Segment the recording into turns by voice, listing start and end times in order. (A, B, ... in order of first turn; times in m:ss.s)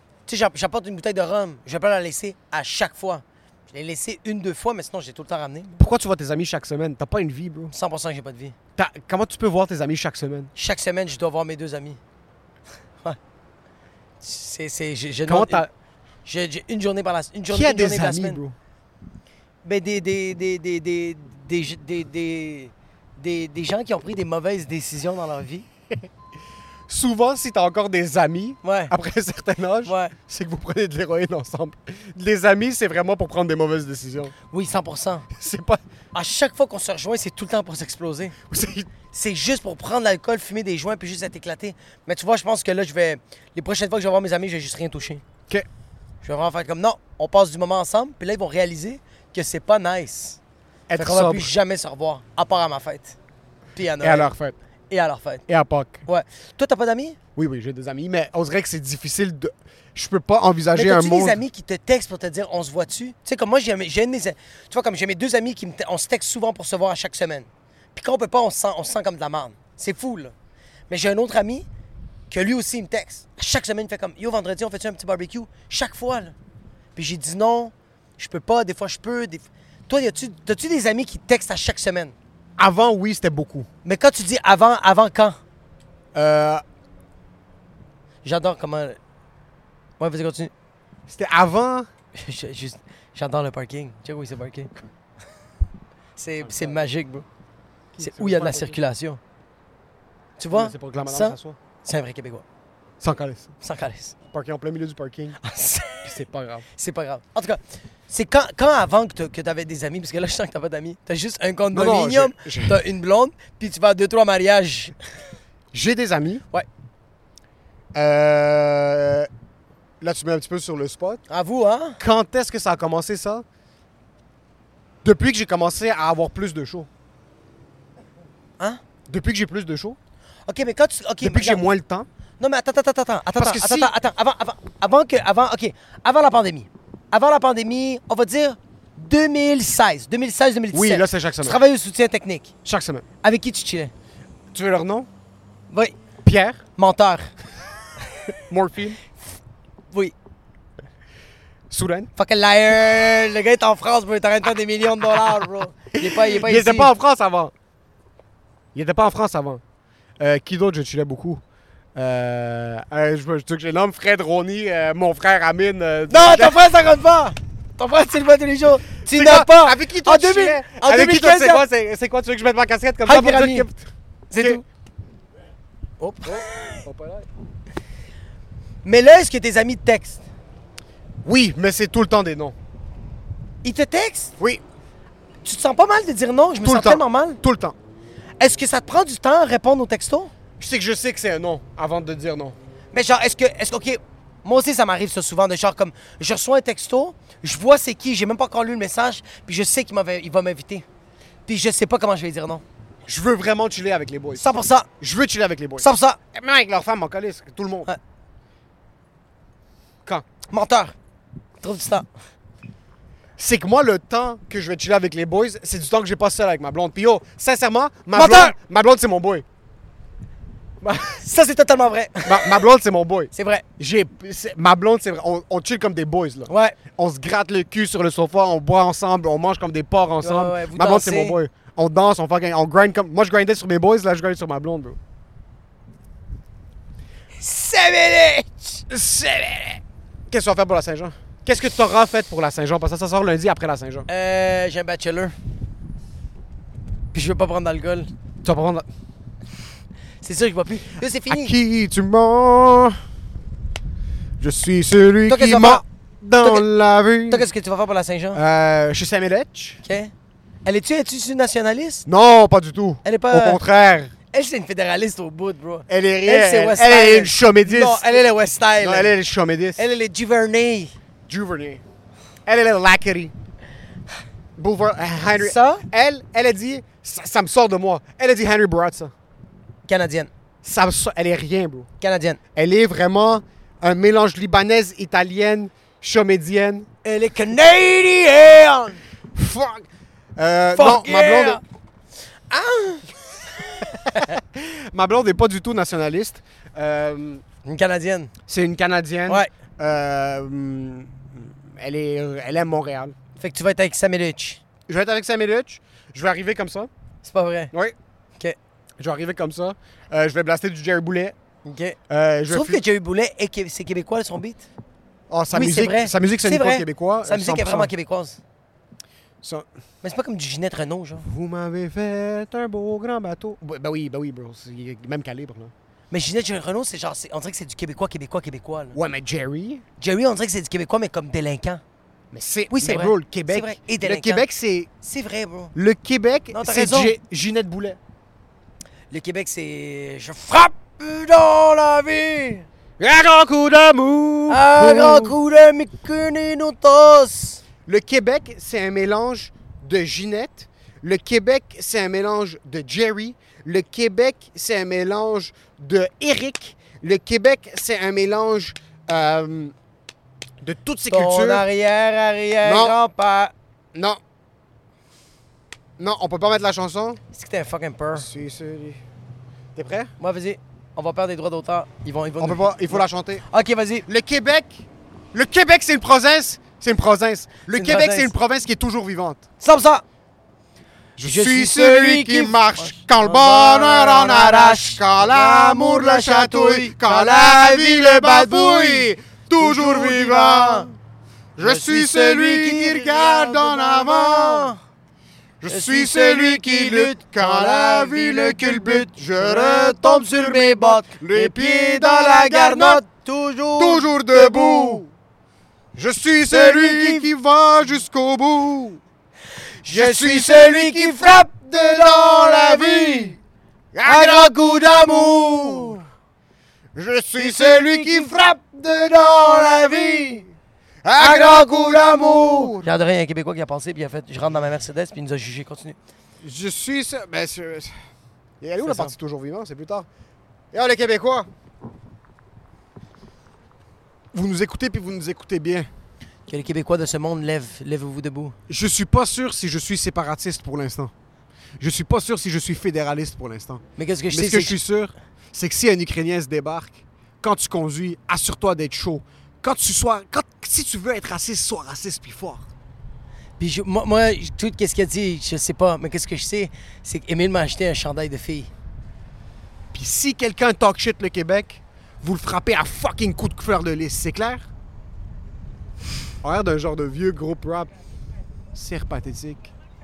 0:00.2-0:05.8 A
0:05.8-0:07.7 B
0:07.7-0:08.5 A
0:08.8-0:10.5 B
0:10.6-0:12.0 A
0:14.2-0:15.6 A
0:15.3-0:15.7 B
0:16.2-0:18.4 A
0:17.5-0:18.6 B
0:19.6-0:25.6 A
0:26.9-0:34.3 B
0:28.6-0:28.9 A
0:29.8-0:30.1 A
0:34.5-0:35.3 A
0:35.3-0:35.8 B
0:36.1-0:38.4 A
0:38.5-0:38.9 B
0:39.1-0:45.2 A
0:46.2-0:50.4 A
0:50.9-0:51.5 B
0:51.0-0:53.2 A
0:53.8-0:54.3 A
0:54.0-0:54.5 B
0:54.9-0:55.4 A
0:55.5-0:56.0 B
0:56.1-0:57.2 A
0:57.4-1:01.4 B
1:00.7-1:10.3 A
1:10.9-1:11.7 A
1:12.3-1:16.3 A
1:17.0-1:22.1 A
1:22.6-1:23.7 B
1:23.8-1:25.4 A
1:26.1-1:26.6 B
1:28.2-1:29.0 A
1:30.0-1:30.5 A
1:31.1-1:31.9 B
1:32.1-1:34.7 A
1:36.2-1:37.2 A
1:36.4-1:36.8 B
1:37.9-1:38.8 B
1:38.0-1:39.2 A
1:40.4-1:42.4 A
1:40.5-1:41.6 B
1:43.0-1:43.5 B
1:43.6-1:44.1 A
1:44.3-1:45.4 B
1:45.4-1:54.9 A
1:46.0-1:46.6 B
1:51.7-1:52.8 B
1:55.7-1:56.4 B
1:57.9-1:59.3 B
2:00.0-2:01.2 B
2:01.3-2:02.0 A
2:02.0-2:03.4 B
2:05.0-2:06.9 B
2:09.1-2:10.0 B
2:10.5-2:11.6 A
2:11.2-2:12.1 B
2:12.4-2:22.5 A
2:13.3-2:13.9 B
2:20.7-2:21.6 B
2:22.6-2:23.0 B
2:23.2-2:23.9 A
2:24.5-2:25.1 B
2:26.2-2:26.6 B
2:26.8-2:27.3 A
2:28.5-2:29.0 B
2:31.7-2:32.1 B
2:32.2-2:36.9 A
2:35.0-2:37.5 B
2:38.7-2:39.6 B
2:40.2-2:41.4 B
2:41.9-2:46.6 B
2:46.1-2:51.6 A
2:49.1-2:54.6 B
2:53.0-2:53.7 A
2:54.3-2:54.6 A
2:56.0-2:56.8 A
2:56.2-2:57.3 B
2:58.8-3:00.2 A
3:01.2-3:02.6 B
3:03.6-3:04.3 A
3:04.4-3:04.6 B
3:05.4-3:07.4 A
3:06.6-3:07.8 B
3:08.4-3:10.3 A
3:10.6-3:12.6 B
3:12.9-3:20.8 A
3:21.5-3:22.6 A
3:23.0-3:27.9 B
3:24.4-3:24.9 A
3:25.8-3:26.2 A
3:30.5-3:30.9 A
3:31.6-3:32.1 A
3:33.4-3:39.4 B
3:38.1-3:38.5 A
3:40.8-3:41.2 B
3:41.0-3:42.6 A
3:42.2-3:55.0 B
3:43.3-3:43.6 A
3:46.5-3:46.8 A
3:50.2-3:51.4 A
3:57.4-3:58.8 A
3:58.9-4:04.1 B
4:04.1-4:05.3 A
4:07.1-4:08.1 A
4:08.4-4:08.9 B
4:10.2-4:11.5 A
4:11.3-4:13.0 B
4:14.4-4:17.5 B
4:15.3-4:15.8 A
4:16.4-4:16.6 A
4:17.3-4:18.4 A
4:18.3-4:19.8 B
4:19.8-4:20.1 A
4:20.6-4:22.0 A
4:22.0-4:24.1 B
4:23.0-4:23.6 A
4:24.3-4:29.1 A
4:25.9-4:28.2 B
4:28.8-4:29.8 B
4:29.8-4:30.9 A
4:31.3-4:31.8 B
4:32.4-4:33.3 B
4:34.6-4:39.1 B
4:35.3-4:35.8 A
4:39.9-4:40.3 A
4:40.6-4:41.9 B
4:42.0-4:42.4 A
4:42.6-4:46.9 B
4:47.0-4:49.0 A
4:49.3-4:51.6 B
4:50.7-4:51.6 A
4:52.5-4:54.4 A
4:53.8-4:57.4 B
4:57.6-4:58.3 A
4:58.5-5:03.1 B
5:03.4-5:04.6 A
5:04.9-5:06.9 B
5:07.2-5:07.7 A
5:09.0-5:11.4 B
5:11.6-5:14.7 A
5:12.1-5:12.8 B
5:15.3-5:17.9 B
5:15.5-5:18.4 A
5:20.0-5:21.2 A
5:21.2-5:25.7 B
5:26.1-5:29.0 A
5:28.9-5:29.8 B
5:30.0-5:31.8 A
5:32.3-5:34.9 B
5:32.7-5:34.4 A
5:35.0-5:35.7 A
5:35.7-5:38.0 B
5:36.5-5:37.1 A
5:39.1-5:42.7 A
5:43.0-5:45.3 B
5:44.5-5:47.6 A
5:47.8-5:59.7 B
6:00.6-6:01.6 B
6:01.1-6:03.5 A
6:02.6-6:03.0 B
6:03.9-6:04.2 B
6:06.0-6:07.2 B
6:07.3-6:08.3 A
6:08.1-6:09.0 B
6:09.7-6:10.1 B
6:10.2-6:14.0 A
6:12.4-6:13.4 B
6:14.0-6:19.4 B
6:17.7-6:18.3 A
6:19.6-6:20.0 A
6:21.2-6:30.9 B
6:21.2-6:30.9 A
6:31.6-6:34.7 B
6:31.6-6:34.8 A
6:35.6-6:43.0 B
6:35.7-6:45.0 A
6:43.8-6:45.1 B
6:45.9-6:49.0 B
6:46.5-6:47.3 A
6:49.8-6:53.4 A
6:49.8-6:53.4 B
6:53.9-6:56.0 B
6:54.0-6:56.0 A
6:56.9-7:00.5 B
6:57.4-6:58.4 A
6:59.3-7:00.4 A
7:01.0-7:02.9 B
7:01.2-7:06.0 A
7:06.4-7:07.9 B
7:08.6-7:10.1 B
7:08.8-7:09.1 A
7:10.7-7:11.5 B
7:14.3-7:15.9 B
7:16.5-7:18.6 A
7:18.7-7:21.1 B
7:21.8-7:32.7 B
7:24.0-7:24.8 A
7:33.6-7:38.7 A
7:39.9-7:44.7 B
7:46.4-7:47.9 B
7:48.7-7:49.7 B